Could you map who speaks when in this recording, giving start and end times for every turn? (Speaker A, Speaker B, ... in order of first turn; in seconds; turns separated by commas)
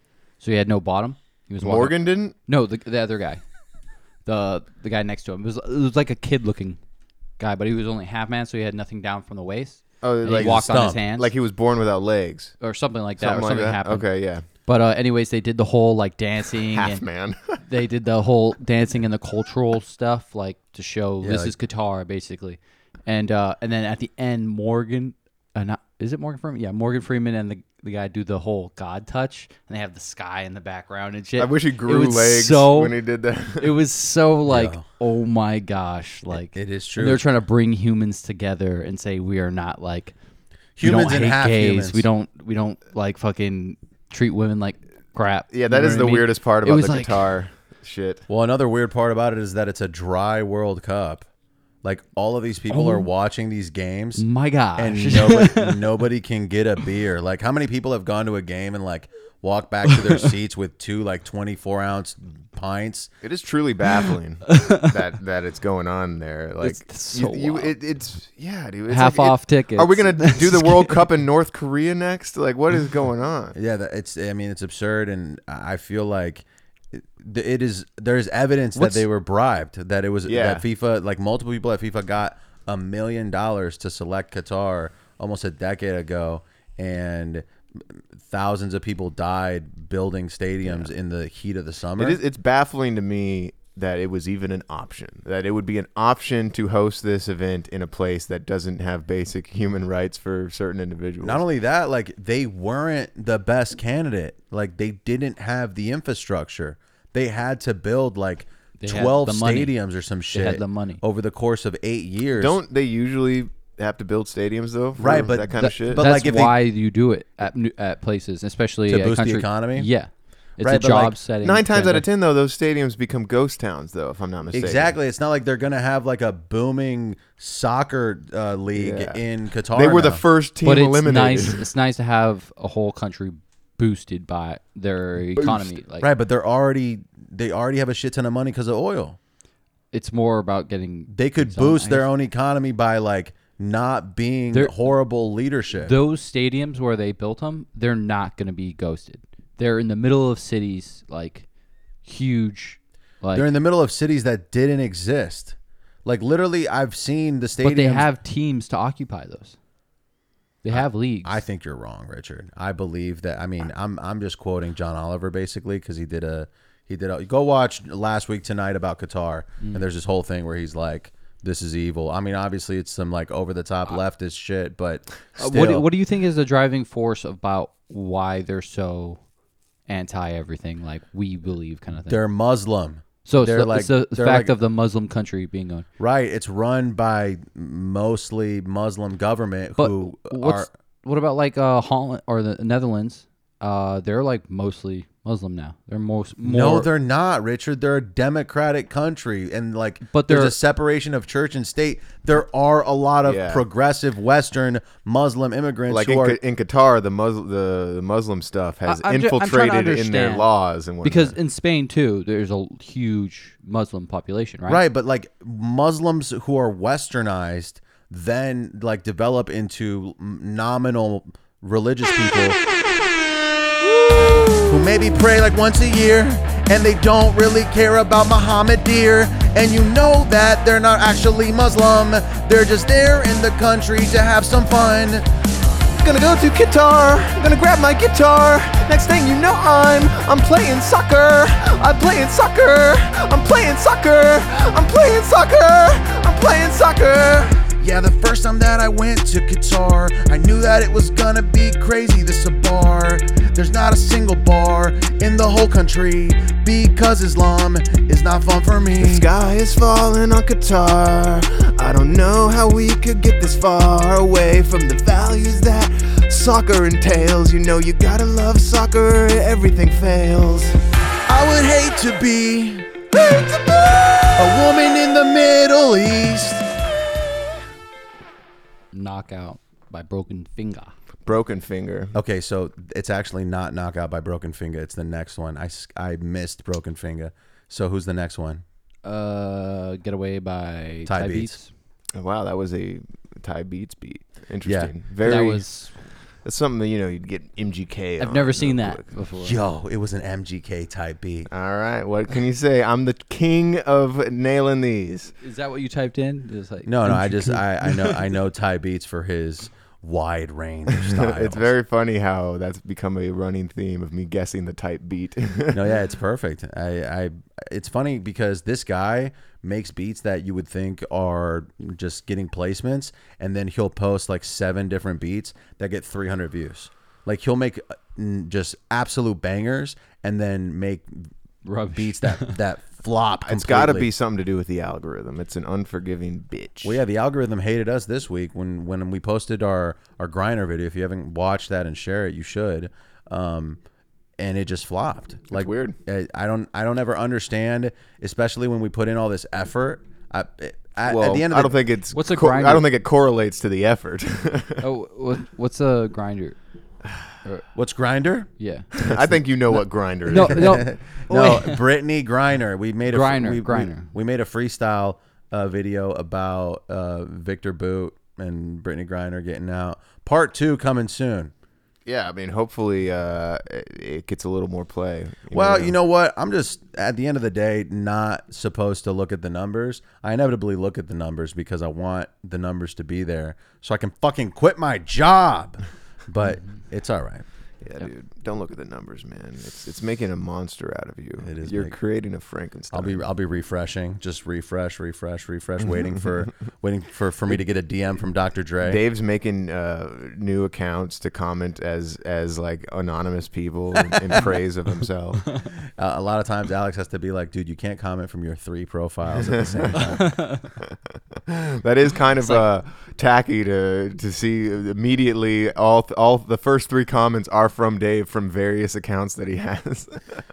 Speaker A: 0.4-1.9, Speaker B: 1.6-2.3, Speaker A: 2.5-3.4, Speaker A: 4.2-6.8, Speaker A: 7.4-11.3, Speaker B: 10.0-12.5, Speaker C: 10.4-11.0, Speaker A: 12.6-14.0, Speaker B: 13.2-14.4, Speaker A: 14.7-17.0, Speaker B: 16.6-17.6, Speaker A: 17.6-32.9, Speaker C: 21.2-21.5, Speaker B: 31.4-33.7, Speaker A: 33.6-40.1, Speaker C: 34.5-34.8, Speaker C: 36.3-37.2, Speaker C: 40.8-42.0, Speaker A: 40.8-47.2, Speaker B: 45.5-48.2, Speaker C: 48.3-51.2, Speaker C: 51.8-54.2, Speaker A: 52.7-53.1, Speaker A: 54.2-55.8, Speaker C: 54.8-63.1, Speaker A: 59.8-60.2, Speaker B: 63.2-73.5, Speaker A: 64.5-64.9, Speaker A: 66.6-67.7, Speaker A: 68.9-71.0, Speaker C: 73.5-92.2, Speaker B: 78.8-79.0, Speaker B: 80.3-80.6, Speaker B: 90.7-90.9, Speaker B: 92.0-101.4, Speaker C: 101.2-112.6, Speaker A: 108.8-109.7, Speaker A: 110.3-111.0, Speaker B: 112.4-116.0, Speaker C: 115.0-116.6, Speaker A: 115.6-122.0, Speaker C: 118.9-119.9, Speaker C: 120.6-121.2, Speaker B: 121.4-124.9, Speaker C: 124.5-130.2, Speaker B: 128.7-129.2, Speaker B: 129.7-131.6, Speaker A: 130.6-136.1, Speaker B: 135.3-135.6, Speaker C: 136.0-139.2, Speaker A: 139.9-142.1, Speaker C: 141.1-145.9, Speaker A: 145.8-151.5, Speaker A: 152.0-153.5, Speaker C: 153.3-158.1, Speaker A: 157.6-159.6, Speaker A: 160.6-161.4, Speaker C: 160.7-175.8, Speaker A: 175.4-179.2, Speaker A: 179.9-182.2, Speaker C: 182.1-184.6, Speaker A: 183.2-185.8, Speaker C: 186.0-190.7, Speaker A: 189.8-196.9, Speaker C: 196.4-206.4, Speaker A: 200.1-200.6, Speaker B: 203.2-203.6, Speaker B: 205.9-211.3, Speaker A: 208.8-210.5, Speaker A: 211.0-214.8, Speaker C: 214.7-222.6, Speaker C: 224.7-235.2, Speaker B: 236.0-247.7, Speaker C: 247.8-259.3, Speaker B: 259.0-270.8, Speaker C: 271.3-272.9, Speaker B: 273.1-274.3, Speaker C: 274.4-276.7, Speaker A: 278.9-280.9, Speaker B: 281.2-282.1, Speaker C: 282.1-288.6, Speaker A: 289.0-291.7, Speaker C: 291.1-291.5, Speaker B: 292.1-295.6, Speaker C: 294.6-294.9, Speaker A: 295.2-295.9, Speaker B: 296.4-299.1, Speaker A: 298.2-299.6, Speaker C: 299.4-301.5, Speaker B: 301.5-305.3, Speaker A: 305.4-308.2, Speaker C: 306.8-311.7, Speaker B: 310.9-315.8, Speaker C: 315.7-331.3, Speaker A: 331.6-332.6, Speaker C: 331.9-334.1, Speaker B: 333.4-337.0, Speaker C: 336.8-343.8, Speaker C: 344.4-351.7, Speaker B: 345.5-345.9, Speaker B: 351.1-354.8, Speaker A: 352.1-352.8, Speaker A: 354.8-356.6, Speaker C: 357.7-358.5, Speaker A: 358.6-359.1, Speaker B: 358.9-360.8, Speaker A: 360.3-361.8, Speaker C: 360.4-371.5, Speaker A: 363.1-364.1, Speaker B: 372.1-375.9, Speaker C: 375.5-387.4, Speaker B: 387.8-393.2, Speaker C: 391.4-391.9, Speaker C: 392.9-399.0, Speaker B: 398.8-405.4, Speaker C: 406.0-410.4, Speaker B: 409.4-410.0, Speaker A: 409.9-410.7, Speaker B: 411.5-420.4